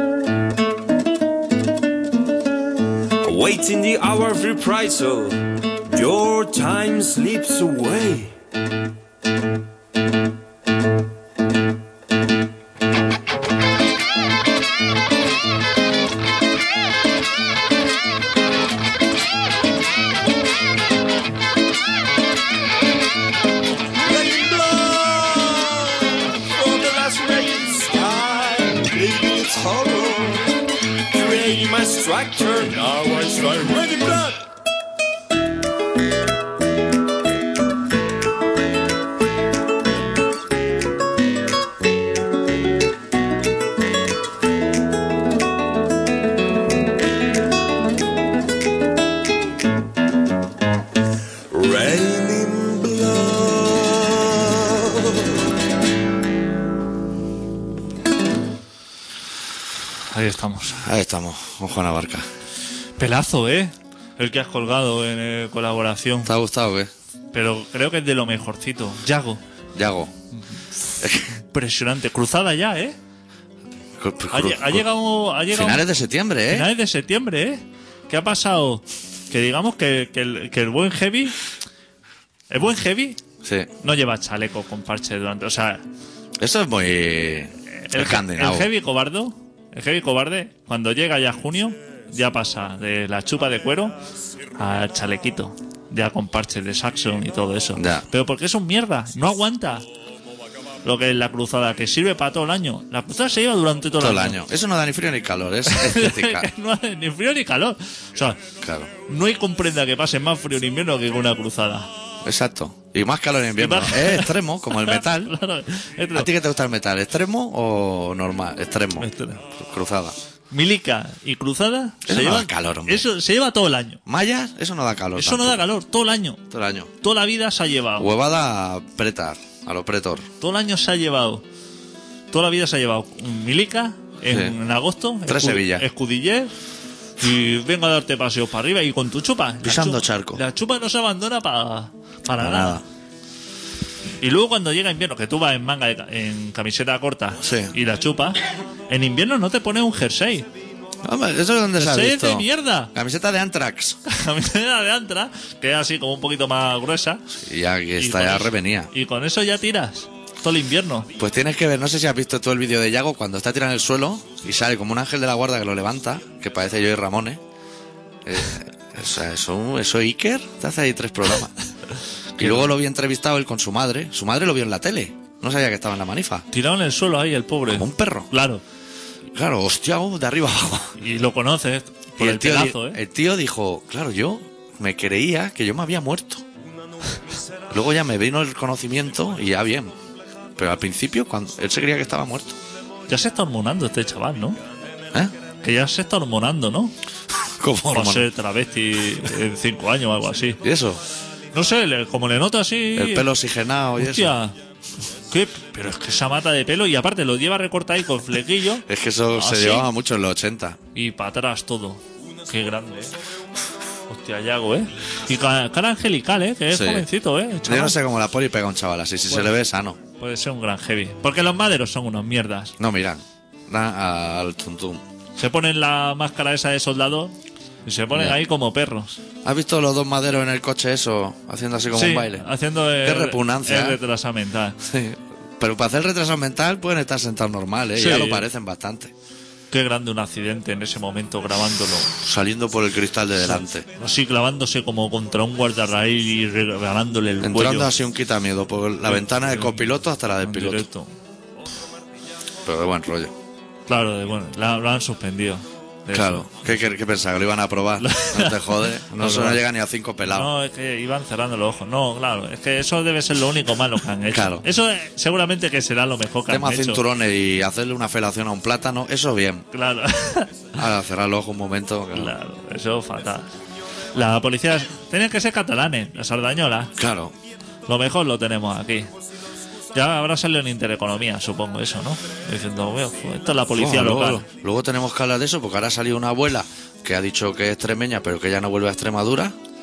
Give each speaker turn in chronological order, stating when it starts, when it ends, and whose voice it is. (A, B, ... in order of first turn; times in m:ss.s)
0:03.2-0:08.3 A
0:24.0-0:30.6 A
0:31.1-0:34.4 A
0:51.5-0:55.4 A
1:00.1-1:00.8 B
1:00.7-1:02.2 C
1:03.0-1:06.3 B
1:06.2-1:06.9 C
1:07.3-1:09.4 B
1:09.7-1:10.1 C
1:11.0-1:11.3 C
1:11.3-1:13.0 B
1:14.0-1:14.8 C
1:14.3-1:15.8 B
1:15.5-1:16.7 C
1:16.5-1:21.4 B
1:22.5-1:23.2 B
1:23.4-1:23.7 C
1:23.8-1:25.8 B
1:26.4-1:28.7 C
1:27.8-1:34.0 B
1:34.6-1:39.8 B
1:37.7-1:38.1 C
1:40.8-1:44.4 B
1:44.0-1:46.5 C
1:45.7-1:48.4 B
1:48.6-1:48.9 C
1:49.0-1:51.9 B
1:52.2-1:55.3 C
1:53.6-1:56.3 B
1:56.1-2:00.2 C
1:59.0-1:59.4 B
2:00.5-2:04.0 B
2:02.0-2:03.1 C
2:04.0-2:05.6 C
2:05.2-2:06.4 B
2:06.5-2:06.9 C
2:07.0-2:08.1 B
2:08.0-2:10.3 C
2:10.4-2:11.4 B
2:12.3-2:16.5 B
2:14.3-2:14.6 C
2:15.3-2:15.8 C
2:17.2-2:22.8 B
2:19.6-2:20.4 C
2:22.4-2:22.8 C
2:24.2-2:30.5 B
2:27.4-2:27.7 C
2:31.0-2:34.0 C
2:31.8-2:32.9 B
2:34.0-2:37.2 B
2:37.3-2:38.9 C
2:38.0-2:41.1 B
2:41.2-2:47.4 C
2:48.2-2:51.5 C
2:52.4-2:52.7 B
2:52.4-2:56.4 C
2:56.5-2:58.6 B
2:57.7-2:58.3 C
2:59.3-3:01.0 C
3:01.0-3:03.0 B
3:02.2-3:06.4 C
3:07.7-3:09.9 C
3:10.6-3:12.6 C
3:13.1-3:14.6 B
3:15.6-3:16.9 B
3:17.6-3:18.3 C
3:17.9-3:20.6 B
3:20.6-3:21.0 C
3:21.5-3:23.3 B
3:22.9-3:24.3 C
3:24.0-3:24.6 B
3:25.3-3:29.9 B
3:28.8-3:30.8 C
3:30.9-3:33.2 B
3:34.1-3:38.0 B
3:36.7-3:37.1 C
3:37.6-3:40.0 C
3:40.2-3:42.7 B
3:42.8-3:45.0 C
3:45.4-3:49.2 B
3:48.1-3:48.4 C
3:49.4-3:52.4 C
3:51.9-3:54.8 B
3:53.0-3:54.0 C
3:54.8-3:59.1 C
3:58.0-3:58.5 B
3:59.7-4:02.1 B
4:02.2-4:03.8 C
4:03.4-4:07.9 B
4:07.4-4:10.9 C
4:09.1-4:09.8 B
4:10.4-4:11.1 B
4:12.6-4:13.3 C
4:13.9-4:16.5 B
4:16.1-4:20.5 C
4:18.0-4:19.6 B
4:20.3-4:27.0 B
4:24.3-4:24.6 C
4:26.5-4:29.7 C
4:29.7-4:30.7 B
4:30.7-4:32.3 C
4:32.1-4:33.5 B
4:34.1-4:36.9 B
4:37.0-4:37.3 C
4:37.8-4:39.1 B
4:39.9-4:44.4 B
4:43.7-4:49.6 C